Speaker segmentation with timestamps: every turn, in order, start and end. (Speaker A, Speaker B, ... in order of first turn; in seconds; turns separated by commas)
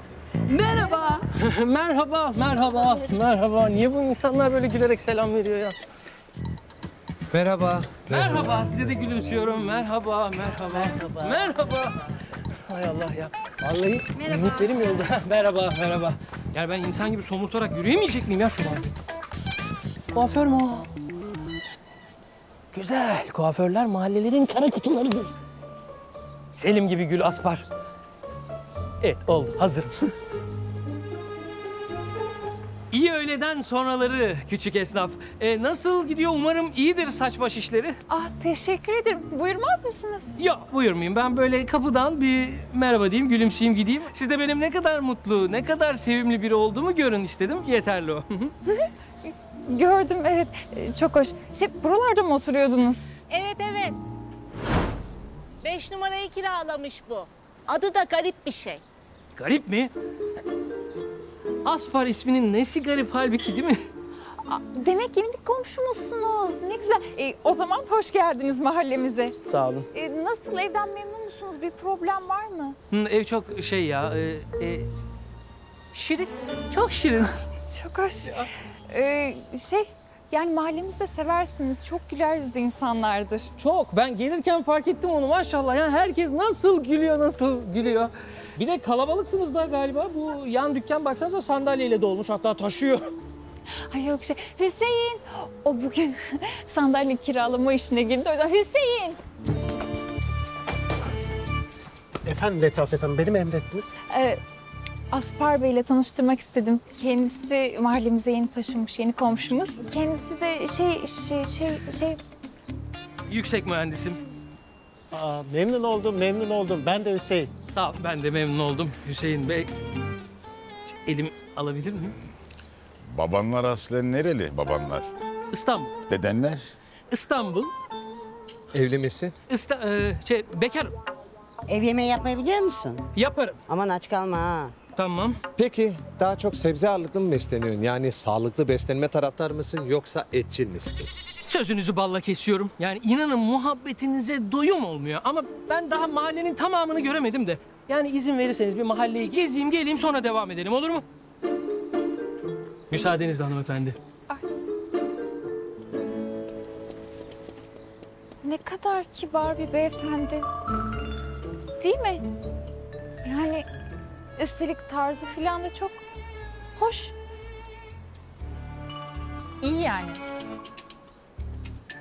Speaker A: 0.6-1.2, Speaker B: 1.3-5.8, Speaker C: 7.3-8.5, Speaker B: 8.1-12.0, Speaker B: 12.7-18.9, Speaker B: 20.1-20.9, Speaker B: 22.7-25.3, Speaker B: 26.5-27.7, Speaker B: 29.0-30.1, Speaker B: 32.9-38.0, Speaker A: 38.1-40.3, Speaker B: 40.4-48.5, Speaker A: 49.6-53.1, Speaker D: 53.3-54.0, Speaker D: 55.6-58.8, Speaker B: 59.4-59.9, Speaker B: 61.6-63.8, Speaker A: 64.5-69.4, Speaker B: 69.5-69.8, Speaker A: 69.9-72.8, Speaker B: 72.9-74.9, Speaker B: 75.9-77.4, Speaker A: 77.5-83.5, Speaker B: 83.6-93.0, Speaker A: 93.9-99.2, Speaker E: 102.2-103.9, Speaker A: 104.1-104.4, Speaker A: 105.1-112.2, Speaker B: 113.3-114.2, Speaker E: 115.1-117.5, Speaker B: 117.7-119.7, Speaker B: 120.9-122.2, Speaker F: 123.1-125.1, Speaker B: 125.5-125.9, Speaker F: 126.1-126.7, Speaker B: 127.1-127.7, Speaker C: 128.7-129.3, Speaker B: 129.5-130.9, Speaker G: 131.7-133.0, Speaker B: 133.2-133.6, Speaker G: 133.7-134.8, Speaker B: 135.0-135.4, Speaker C: 135.6-141.1, Speaker B: 141.4-151.0, Speaker B: 152.9-154.0, Speaker A: 158.4-160.5, Speaker A: 161.8-162.2, Speaker A: 163.2-163.7, Speaker A: 164.4-166.0, Speaker A: 166.8-167.1, Speaker A: 169.6-170.2